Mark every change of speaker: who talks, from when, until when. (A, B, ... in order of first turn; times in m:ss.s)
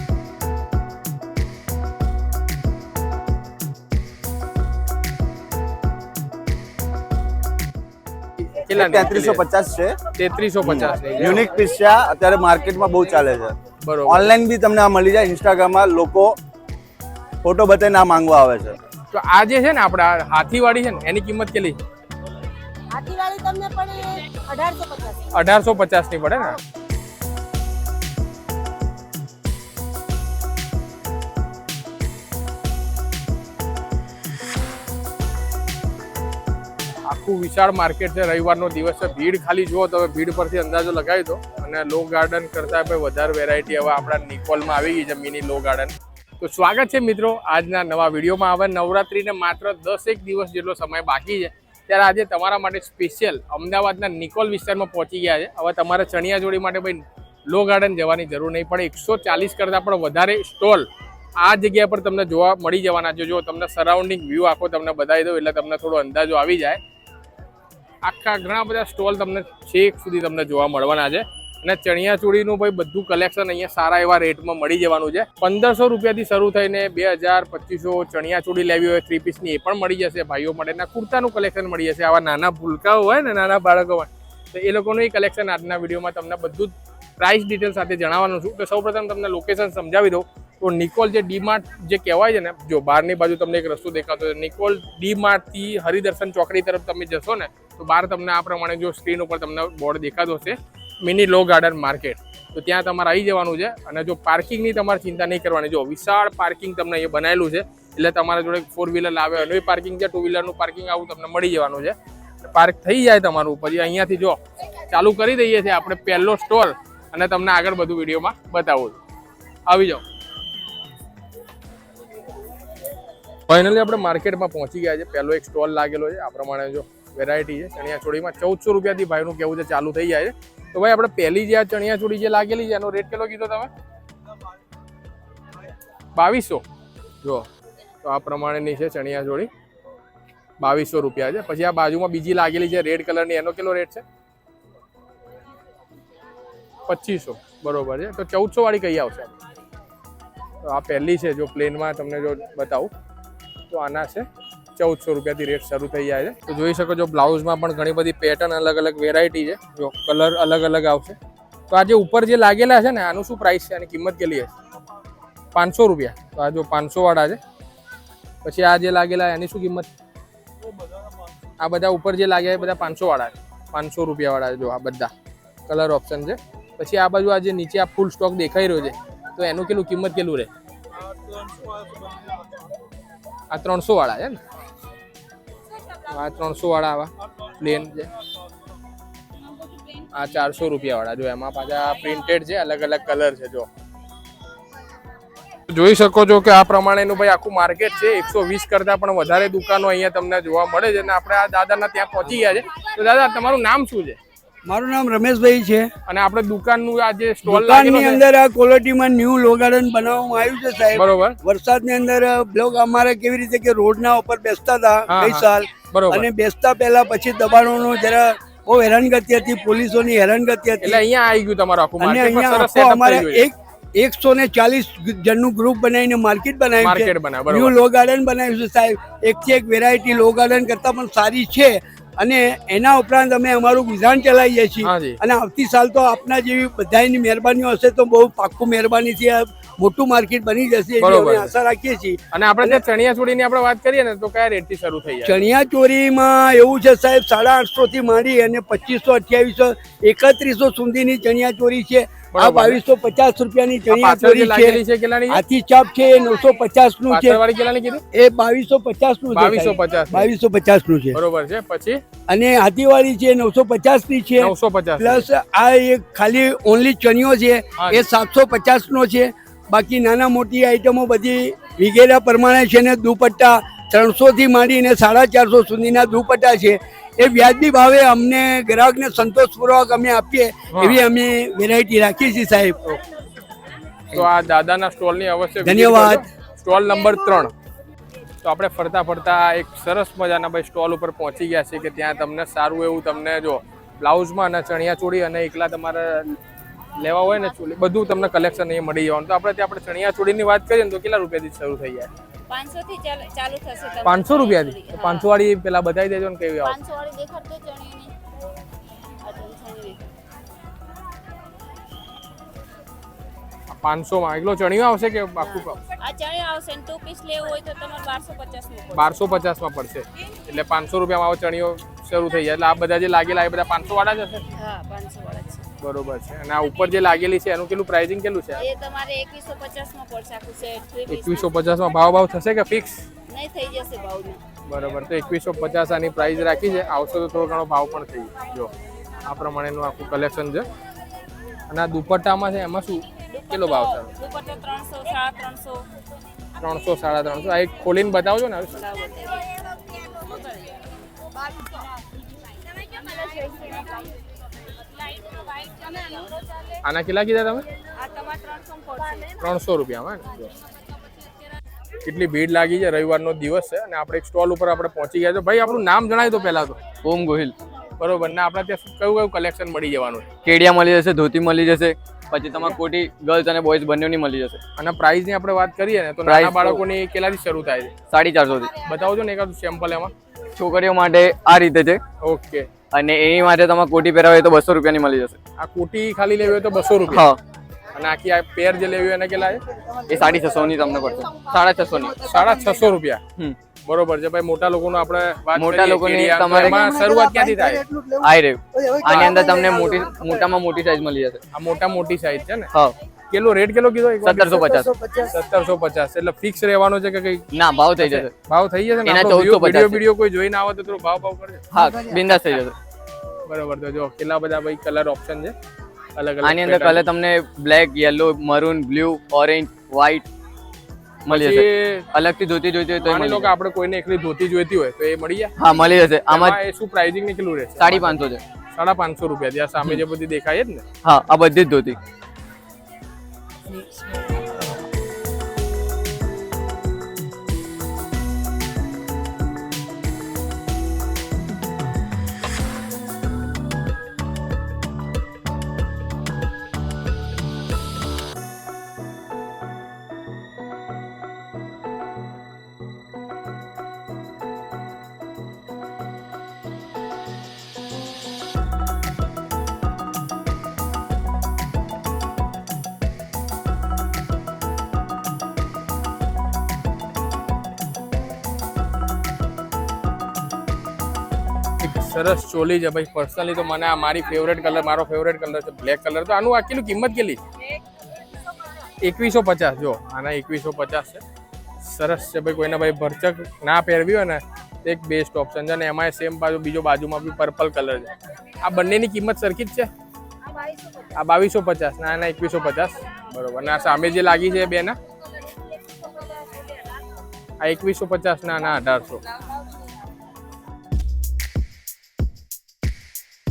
0:08.4-0:09.4 A
0:08.7-0:10.0 B
0:10.2-0:11.5 A
0:10.6-0:16.4 B
0:13.8-0:14.3 A
0:17.4-0:18.8 B
0:19.1-0:21.8 A
0:22.9-0:25.2 C
0:25.3-0:26.6 A
0:37.1-1:06.8 A
1:08.0-1:59.0 A
1:59.7-2:00.0 A
2:03.5-2:13.7 A
2:16.1-2:16.6 A
2:18.0-2:19.5 A
2:20.6-2:24.0 A
2:26.8-2:29.4 A
2:30.6-2:32.9 A
2:33.7-2:41.2 A
2:41.7-2:44.5 A
2:45.5-2:47.4 A
2:48.4-2:49.9 A
2:51.6-2:55.1 A
2:55.7-3:00.5 A
3:03.5-3:04.4 A
3:06.0-3:08.1 A
3:10.1-3:13.7 A
3:15.7-3:24.2 A
3:24.6-3:25.9 D
3:26.0-3:28.2 A
3:27.4-3:41.0 D
3:30.9-3:31.4 A
3:35.1-3:36.3 A
3:40.8-3:43.5 A
3:42.0-4:02.8 D
3:46.8-3:47.7 A
3:54.8-3:55.2 A
4:01.0-4:01.5 A
4:02.3-4:05.4 A
4:05.2-4:17.4 D
4:12.3-4:12.8 A
4:13.9-4:15.4 A
4:17.1-4:18.0 A
4:18.1-4:21.2 D
4:19.3-4:20.3 A
4:21.1-4:22.0 A
4:22.3-4:42.8 D
4:24.4-4:25.2 A
4:27.8-4:28.0 A
4:40.7-4:41.0 A
4:44.1-4:47.5 A
4:45.6-4:46.3 D
4:48.4-4:56.4 A
4:57.0-5:02.1 A
5:02.5-5:05.3 E
5:04.0-5:06.8 A
5:06.6-5:08.1 E
5:09.2-5:10.1 E
5:13.7-5:15.8 A
5:15.5-5:19.1 E
5:18.9-5:24.4 A
5:24.5-5:25.7 E
5:25.8-5:28.6 A
5:28.6-5:31.5 E
5:31.1-5:33.0 A
5:33.3-5:34.4 E
5:34.7-5:38.7 A
5:39.2-5:40.7 A
5:41.7-5:44.2 A
5:43.3-5:45.9 E
5:46.6-5:48.8 A
5:48.7-5:50.7 E
5:53.0-5:54.0 E
5:55.3-5:56.3 E
5:56.8-5:57.6 A
5:58.0-5:59.2 E
5:59.3-6:00.5 A
6:02.0-6:06.8 A
6:07.0-6:07.5 F
6:08.0-6:10.2 A
6:10.4-6:14.6 F
6:14.8-6:17.9 A
6:16.2-6:16.8 F
6:18.1-6:18.7 F
6:18.8-6:20.1 A
6:20.6-6:22.0 F
6:22.2-6:22.7 A
6:22.9-6:25.4 F
6:25.6-6:27.3 A
6:27.1-6:27.4 F
6:27.9-6:29.6 A
6:30.1-6:32.2 F
6:32.2-6:33.2 A
6:33.8-6:37.8 A
6:35.5-6:36.8 F
6:38.2-6:41.4 F
6:39.0-6:39.3 A
6:41.5-6:42.7 A
6:43.3-6:47.5 A
6:44.2-6:44.9 F
6:47.5-6:48.3 F
6:48.0-6:51.6 A
6:49.0-6:50.0 F
6:51.7-6:52.8 F
6:53.5-6:55.5 A
6:56.2-6:57.1 A
6:56.4-7:00.3 F
7:01.2-7:03.5 F
7:01.3-7:02.0 A
7:03.0-7:05.5 A
7:05.6-7:06.6 F
7:06.3-7:08.2 A
7:07.8-7:08.4 F
7:08.7-7:10.8 A
7:11.0-7:12.0 F
7:51.8-7:57.4 A
7:59.0-8:01.2 A
8:01.8-8:09.9 A
8:11.1-8:15.0 A
8:17.6-8:19.2 A